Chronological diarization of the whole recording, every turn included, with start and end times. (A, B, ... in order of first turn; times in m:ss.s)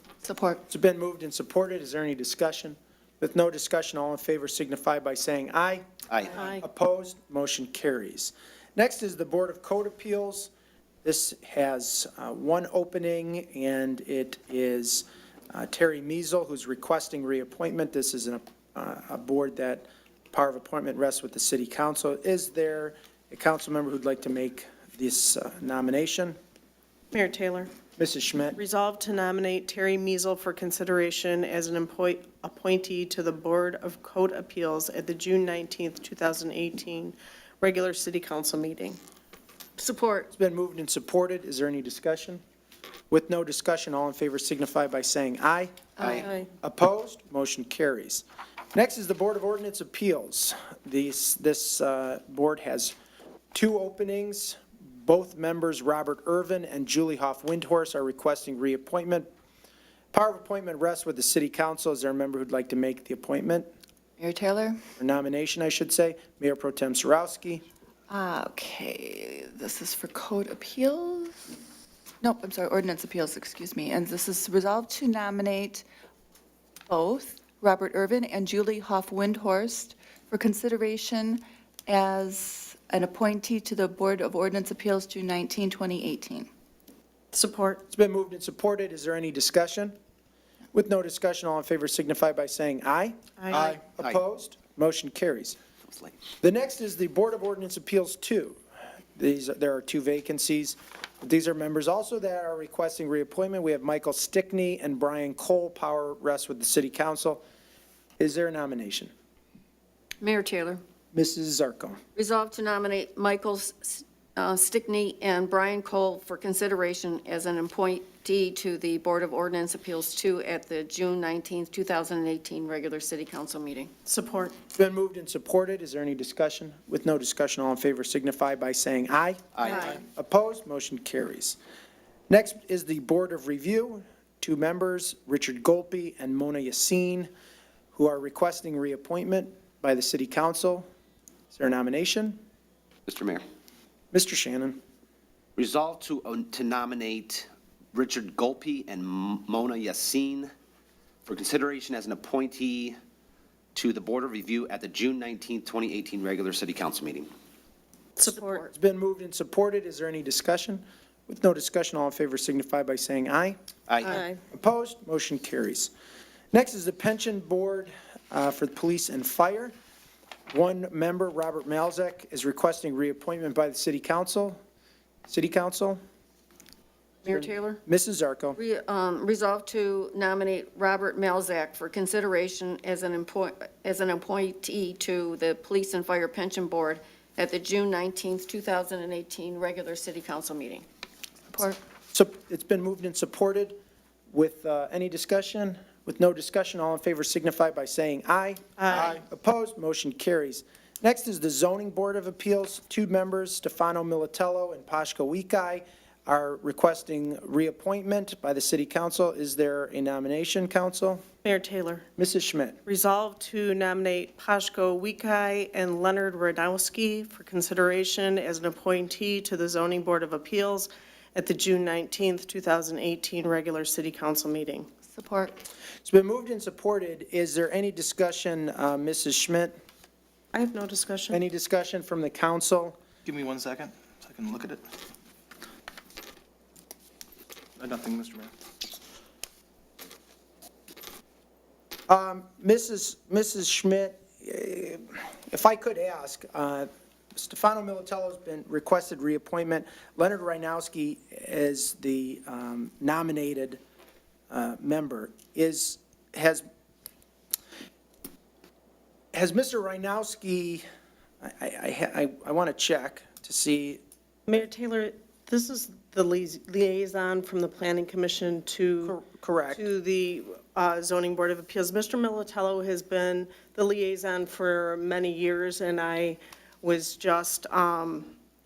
0:00.2-0:00.6 A
0:00.7-0:05.8 B
0:06.1-0:06.4 C
0:06.3-0:10.5 B
0:11.0-0:26.4 B
0:27.1-0:27.7 D
0:28.0-0:28.6 B
0:28.6-0:39.0 D
0:39.8-0:40.3 E
0:40.3-0:42.4 B
0:43.1-0:53.0 B
0:46.0-0:46.3 E
0:46.2-0:46.5 D
0:53.5-0:59.3 B
1:00.1-1:03.7 B
1:04.2-1:04.8 A
1:05.0-1:07.6 B
1:08.1-1:11.4 A
1:12.2-1:15.8 A
1:16.9-1:26.5 A
1:27.3-1:27.8 D
1:27.9-1:30.0 B
1:30.7-1:35.6 B
1:33.4-1:33.7 D
1:33.5-1:34.2 C
1:36.4-1:38.6 B
1:39.2-1:47.4 B
1:48.2-1:49.1 B
1:50.2-1:50.8 E
1:51.1-1:52.0 B
1:52.2-2:03.9 E
2:04.1-2:04.6 D
2:04.8-2:11.6 B
2:09.6-2:10.0 C
2:09.6-2:10.0 D
2:12.3-2:17.3 B
2:17.9-2:20.8 B
2:21.5-2:22.4 B
2:23.1-2:23.4 C
2:24.1-2:24.8 B
2:25.6-2:30.5 C
2:31.3-2:33.0 C
2:33.8-2:37.3 C
2:38.2-2:38.6 D
2:38.3-2:38.7 E
2:38.7-2:43.6 B
2:43.9-2:44.2 C
2:44.0-2:44.4 D
2:44.5-2:45.9 B
2:46.5-2:49.8 B
2:50.5-2:54.6 B
2:55.3-2:56.0 B
2:57.2-2:57.8 E
2:57.3-2:58.6 B
2:58.6-3:10.8 E
3:11.5-3:11.8 A
3:12.1-3:13.8 B
3:14.3-3:31.2 B
3:18.8-3:19.2 D
3:31.4-3:32.1 D
3:32.2-3:32.8 B
3:32.9-3:44.9 D
3:45.1-3:45.6 A
3:46.1-3:49.7 B
3:50.5-3:51.4 D
3:51.3-3:53.0 B
3:53.2-3:54.8 F
3:57.8-3:58.5 F
4:02.1-4:13.8 B
4:14.5-4:16.6 B
4:19.3-4:20.8 B
4:21.4-4:24.0 B
4:24.5-4:29.2 D
4:29.0-4:29.8 B
4:29.7-4:38.3 D